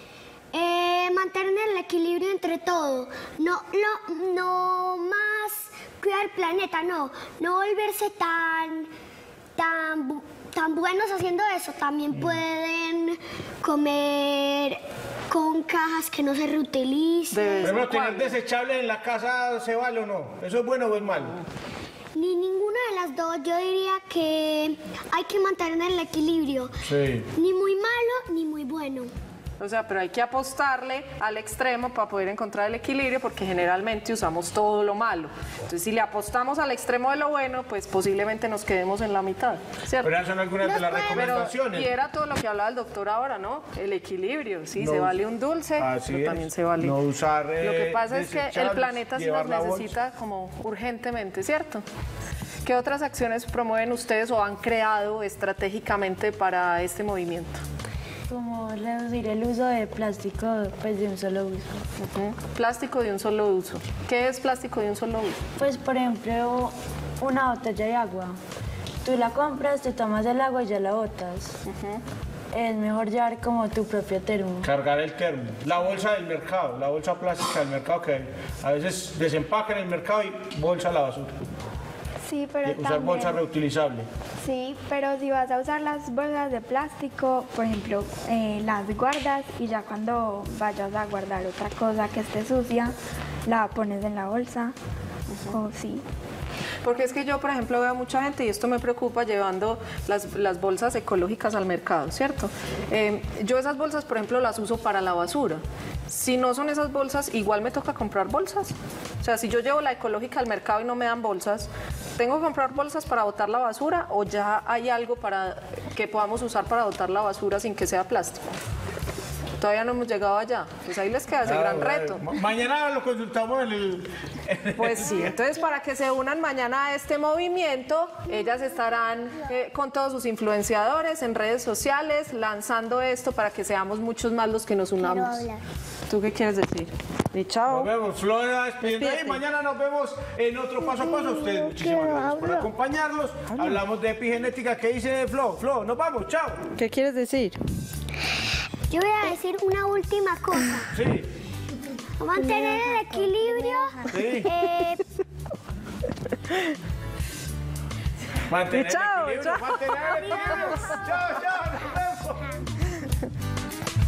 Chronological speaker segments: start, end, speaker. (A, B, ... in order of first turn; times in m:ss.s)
0:00.5-0:08.9 A
0:09.6-0:17.8 A
0:12.1-0:12.4 B
0:17.3-0:18.3 C
0:17.6-0:21.4 B
0:22.1-0:26.7 A
0:26.8-0:27.3 B
0:27.3-0:29.1 A
0:29.6-0:40.1 C
0:40.0-0:41.9 B
0:40.6-0:41.3 A
0:41.1-0:46.9 C
0:44.8-0:45.2 B
0:45.8-0:49.9 B
0:47.6-0:51.8 C
0:52.6-0:57.6 C
0:58.3-1:01.8 D
1:02.0-1:05.4 C
1:05.6-1:08.4 D
1:09.0-1:11.6 D
1:11.6-1:12.0 C
1:12.5-1:14.7 D
1:14.6-1:21.4 B
1:22.2-1:23.4 E
1:22.6-1:24.1 B
1:24.4-1:32.9 E
1:33.4-1:34.7 E
1:35.5-1:36.0 E
1:36.8-1:58.4 C
1:59.6-2:02.2 C
2:01.4-2:05.3 B
2:04.8-2:15.5 C
2:08.3-2:08.7 A
2:15.0-2:15.6 A
2:16.1-2:17.9 C
2:17.7-2:26.6 B
2:18.8-2:19.4 C
2:20.8-2:22.7 A
2:23.5-2:23.8 C
2:26.8-2:27.6 C
2:28.9-2:30.9 A
2:30.9-2:31.3 B
2:32.2-2:35.0 A
2:34.1-2:34.5 B
2:38.5-2:42.6 B
2:38.7-2:41.0 C